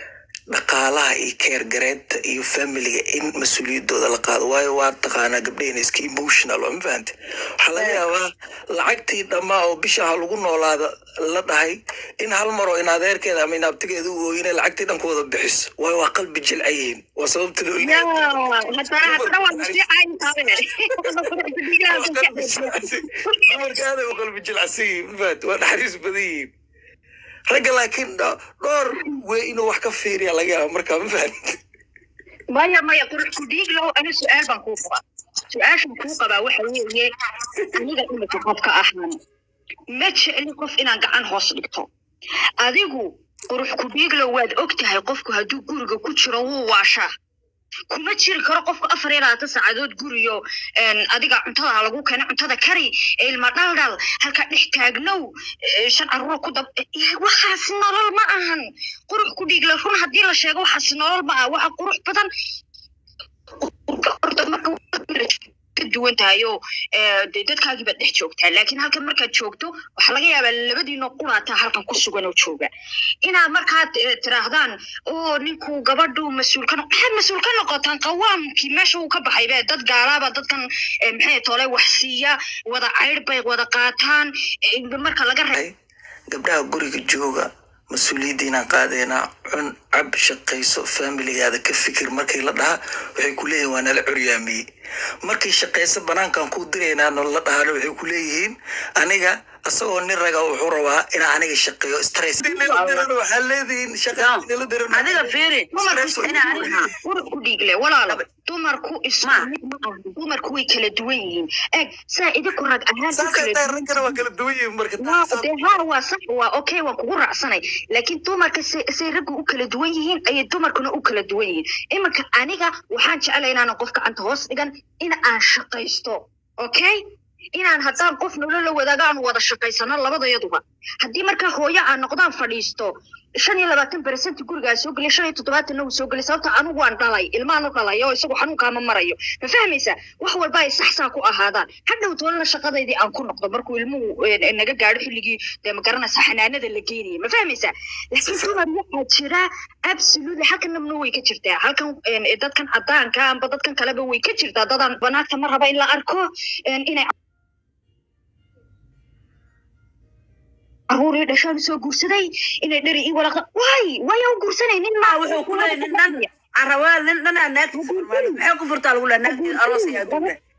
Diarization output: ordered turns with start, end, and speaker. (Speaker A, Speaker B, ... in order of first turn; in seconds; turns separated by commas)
Speaker A: 0.5-18.3, Speaker B: 17.8-23.4, Speaker A: 19.0-19.8, Speaker A: 21.9-26.5, Speaker A: 27.5-31.3, Speaker B: 32.5-37.1, Speaker B: 37.7-39.2, Speaker B: 39.9-41.9, Speaker B: 42.6-47.1, Speaker B: 47.9-62.3, Speaker B: 63.6-72.7, Speaker B: 73.2-85.5, Speaker A: 86.3-94.6, Speaker A: 95.2-105.3, Speaker C: 102.7-103.0, Speaker C: 104.1-106.9, Speaker B: 105.7-114.2, Speaker A: 105.8-106.8, Speaker C: 109.2-109.5, Speaker A: 113.1-115.5, Speaker B: 115.0-127.0, Speaker B: 127.5-157.1, Speaker A: 148.2-148.5, Speaker B: 160.9-166.3, Speaker C: 165.0-170.4, Speaker B: 167.7-168.4, Speaker B: 169.2-170.3